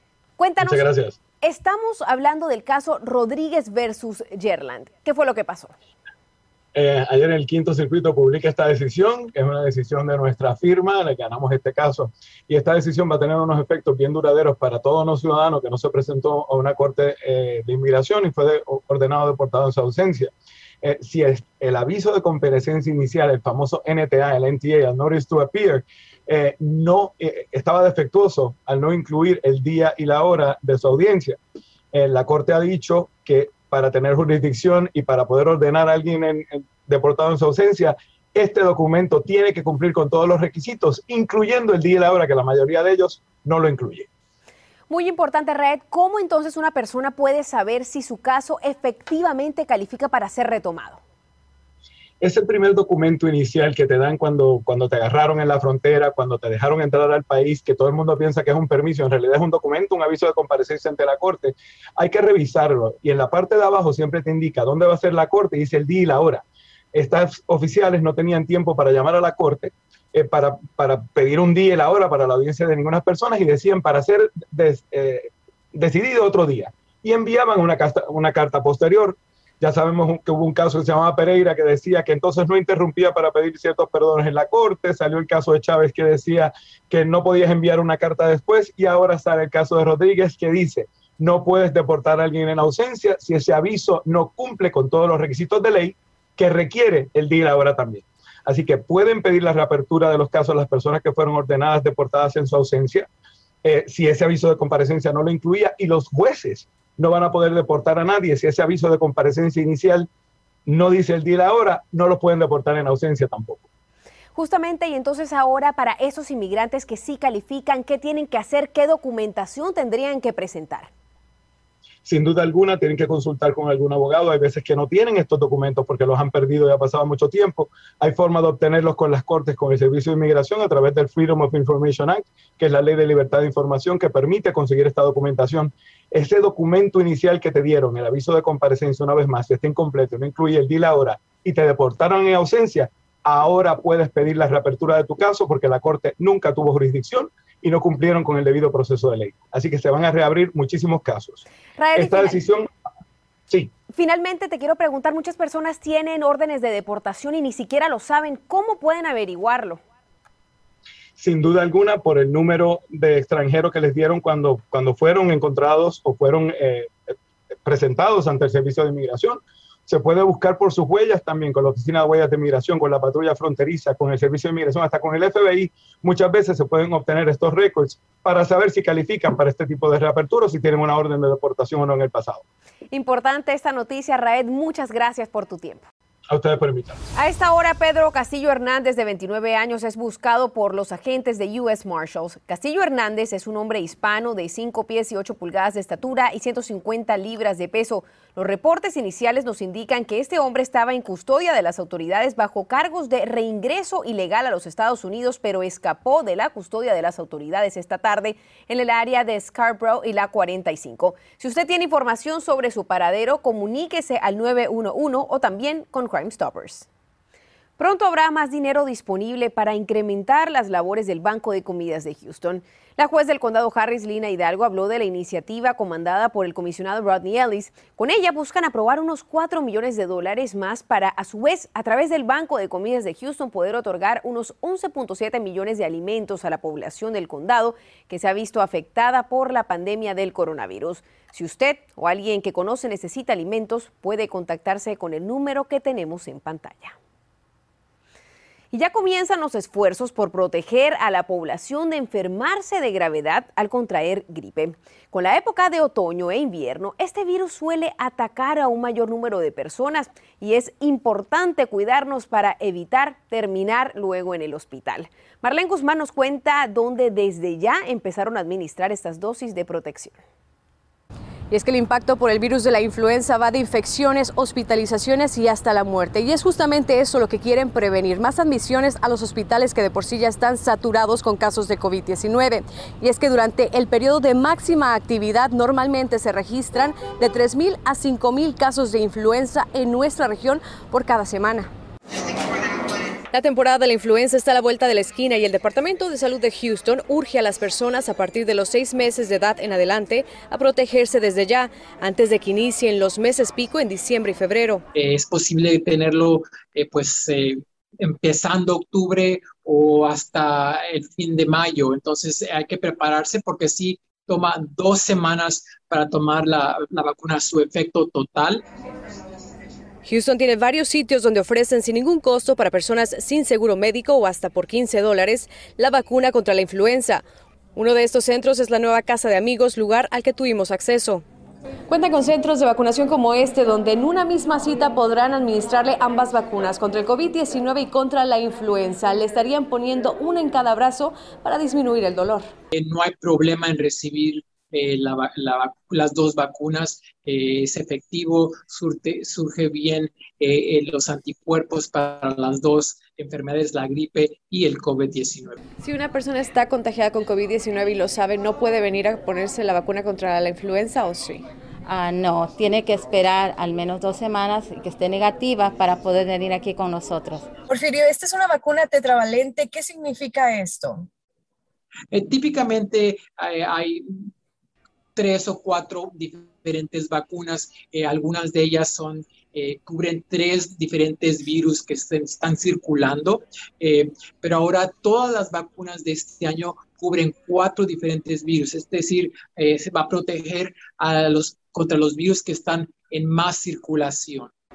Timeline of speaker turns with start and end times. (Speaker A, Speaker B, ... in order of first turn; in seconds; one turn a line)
Speaker A: 0.4-0.9
Speaker B: 0.6-1.2
Speaker A: 1.4-5.8
Speaker B: 6.8-20.3
Speaker B: 20.8-31.4
Speaker B: 31.9-44.1
Speaker A: 44.9-51.0
Speaker B: 52.2-103.1
Speaker B: 103.6-110.1
Speaker B: 110.7-113.6
Speaker A: 114.3-120.9
Speaker B: 122.0-151.4
Speaker A: 151.8-152.4
Speaker B: 151.9-152.7
Speaker A: 153.9-159.8
Speaker B: 161.2-166.9
Speaker B: 167.7-182.4
Speaker A: 182.9-185.9
Speaker B: 186.3-187.0
Speaker A: 187.2-216.9
Speaker A: 217.8-246.9
Speaker A: 248.7-270.2
Speaker C: 271.5-291.7
Speaker C: 293.3-304.8
Speaker D: 304.9-318.6
Speaker C: 320.1-327.2
Speaker C: 327.8-331.2
Speaker C: 331.9-342.5
Speaker D: 342.7-355.6
Speaker C: 355.8-361.5
Speaker E: 361.9-367.5
Speaker F: 367.7-371.1
Speaker D: 372.1-374.3
Speaker D: 375.2-394.5